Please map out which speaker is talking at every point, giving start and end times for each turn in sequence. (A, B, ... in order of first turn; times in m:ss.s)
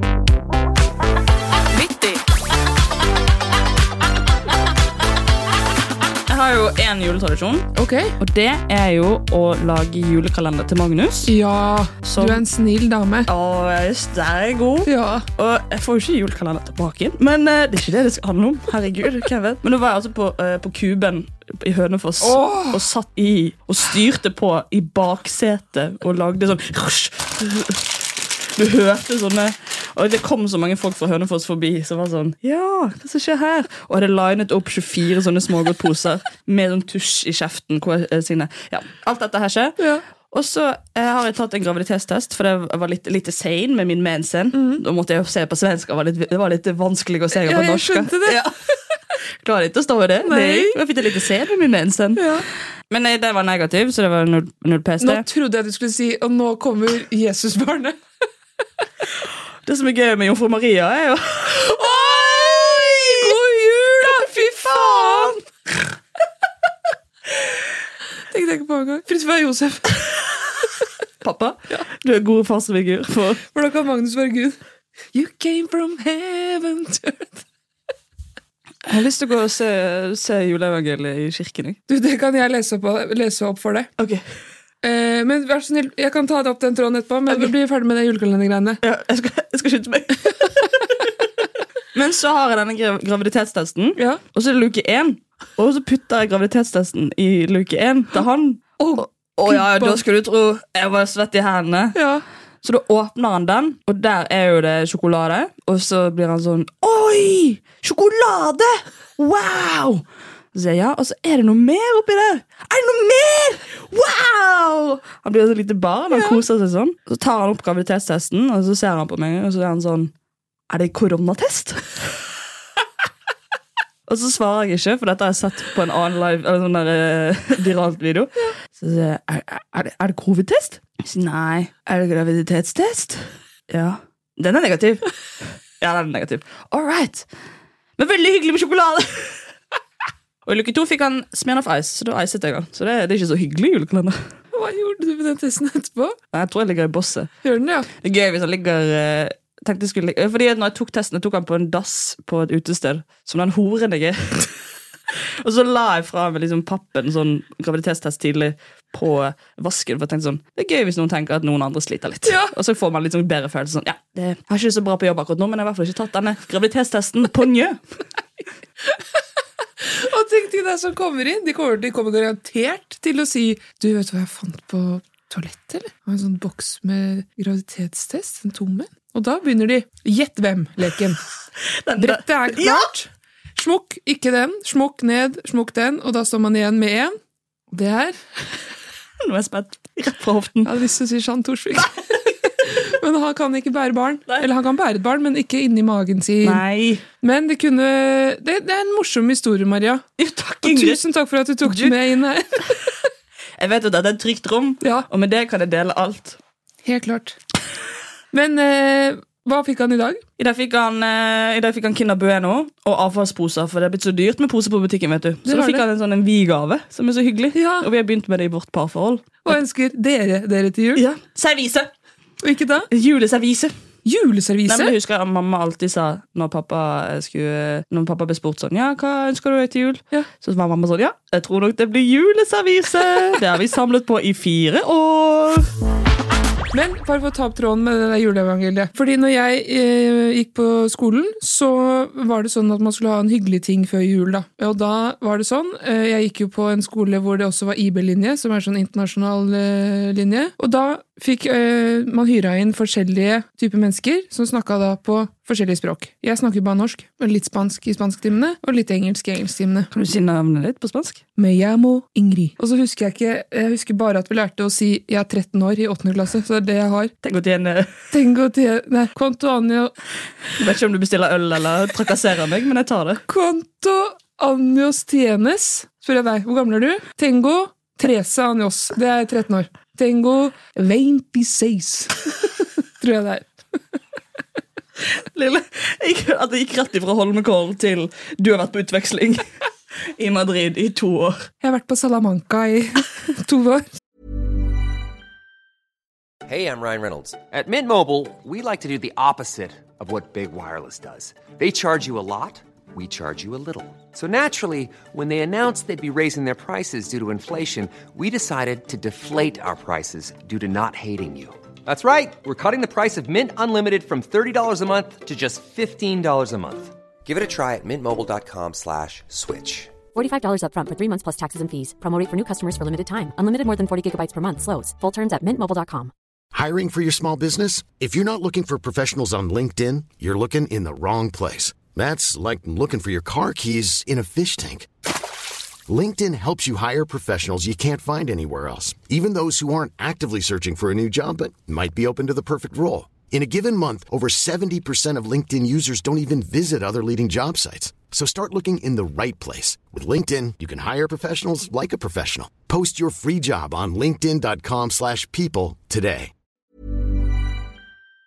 0:01.7-0:02.2 A
0:06.3-0:11.3 A
0:07.8-0:08.2 B
0:11.3-0:13.3 B
0:12.0-0:12.4 A
0:13.3-0:39.8 A
0:14.9-0:15.3 B
0:22.2-0:22.8 B
0:40.3-0:48.5 A
0:44.5-0:44.8 B
0:47.4-0:48.5 B
0:49.4-0:52.3 A
0:50.2-0:50.8 B
0:52.2-0:52.4 B
0:52.9-0:55.2 A
0:55.0-0:58.0 B
0:59.7-1:03.4 A
1:01.7-1:05.4 B
1:04.0-1:05.4 A
1:08.3-1:10.1 B
1:11.2-1:13.4 A
1:13.5-1:14.6 B
1:15.1-1:17.4 B
1:18.9-1:21.8 A
1:21.9-1:23.9 B
1:24.8-1:28.8 B
1:28.8-1:30.9 A
1:31.9-1:42.0 A
1:38.8-1:40.0 B
1:42.0-1:42.2 B
1:42.6-2:00.1 A
1:56.1-1:56.4 B
2:00.7-2:02.0 A
2:04.1-2:15.1 A
2:15.8-2:17.3 A
2:18.0-2:19.4 A
2:20.5-2:24.2 A
2:24.5-2:26.2 B
2:26.3-2:27.3 A
2:27.4-2:27.9 B
2:28.0-2:34.5 A
2:35.4-2:47.8 A
2:42.2-2:42.5 B
2:49.8-3:01.2 B
3:01.7-3:02.9 A
3:02.0-3:07.1 B
3:07.7-3:08.2 B
3:09.2-3:10.7 A
3:10.6-3:16.6 B
3:16.4-3:17.0 A
3:17.2-3:20.0 B
3:20.2-3:21.0 A
3:20.6-3:23.0 B
3:21.7-3:22.0 A
3:23.6-3:26.4 A
3:24.8-3:25.1 B
3:26.8-3:27.4 B
3:28.3-3:30.2 B
3:30.4-3:39.6 A
3:35.4-3:35.8 B
3:37.5-3:37.9 B
3:39.4-3:41.0 B
3:41.0-3:41.9 A
3:42.4-3:42.9 B
3:42.9-3:43.7 A
3:44.0-3:44.9 B
3:44.7-3:55.7 A
3:56.7-4:19.9 B
4:19.9-4:21.2 A
4:21.4-4:27.1 B
4:27.2-4:27.9 A
4:28.1-4:29.9 B
4:30.6-4:33.2 A
4:33.3-4:43.5 B
4:45.3-4:49.5 A
4:50.2-4:51.5 A
4:51.6-4:53.9 B
4:56.5-5:20.0 C
5:20.1-5:26.1 D
5:26.5-5:34.9 E
5:35.9-5:56.3 E